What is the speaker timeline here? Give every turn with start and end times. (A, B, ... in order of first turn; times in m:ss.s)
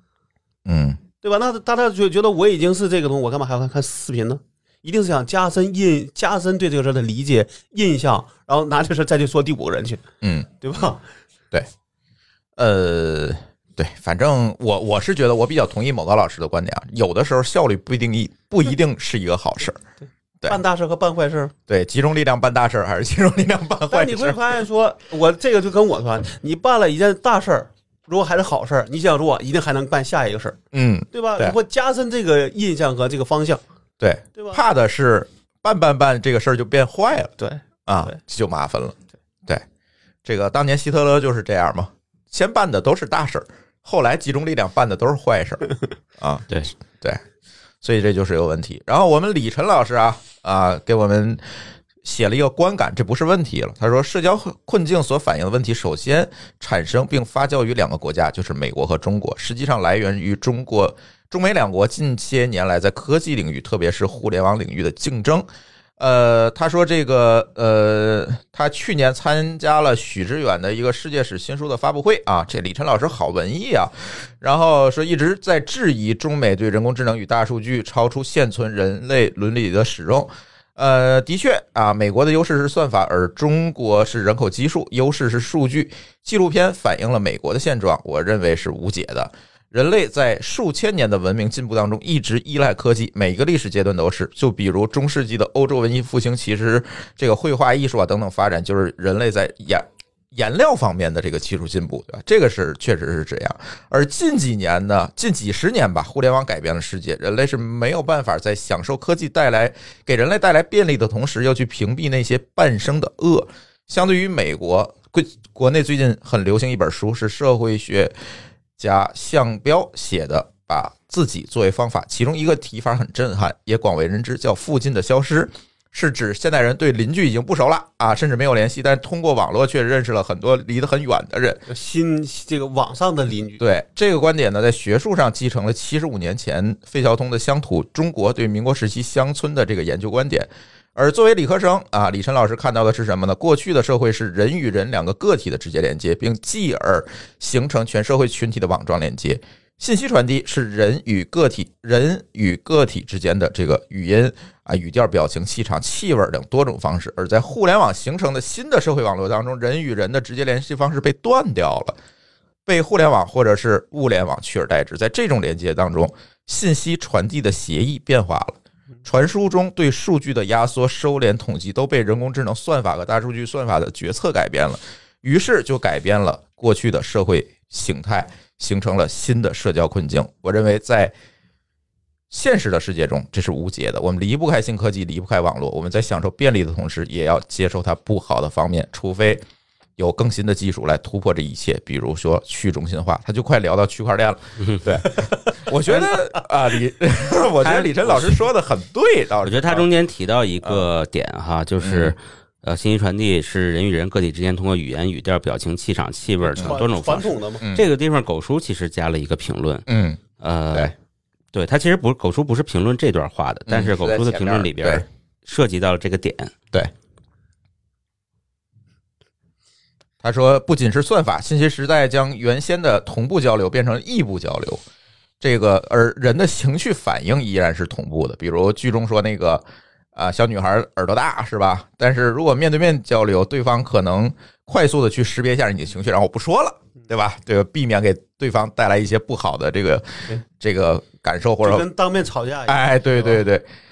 0:00.7-0:01.0 A
0:01.2-0:10.1 B
0:10.2-0:10.5 A
0:10.6-0:11.0 B
0:12.6-0:19.8 A
0:20.5-0:21.5 B
0:21.7-0:24.6 A
0:23.9-0:30.6 B
0:30.7-0:31.6 A
0:31.1-0:33.6 B
0:34.0-0:37.3 A
0:34.4-0:34.6 B
0:37.4-0:38.2 B
0:37.9-0:39.6 A
0:40.2-0:45.7 A
0:46.2-0:47.2 A
0:47.8-0:51.4 A
0:52.0-1:05.5 A
1:06.0-1:58.2 A
1:58.8-2:11.6 A
2:11.7-2:13.6 B
2:13.6-2:42.0 A
2:42.7-3:01.1 A
3:02.3-3:09.4 A
3:10.0-3:19.9 A
3:14.6-3:14.9 C
3:15.9-3:16.1 C
3:17.6-3:18.5 C
3:19.4-3:29.9 C
3:21.8-3:22.2 A
3:26.5-3:27.6 B
3:27.6-3:27.9 A
3:29.9-3:30.2 A
3:30.4-3:30.9 C
3:31.5-3:36.5 C
3:33.7-3:35.0 A
3:40.2-3:44.8 A
3:45.4-3:49.6 A
3:50.2-4:01.9 A
4:01.6-4:03.4 B
4:02.7-4:03.7 A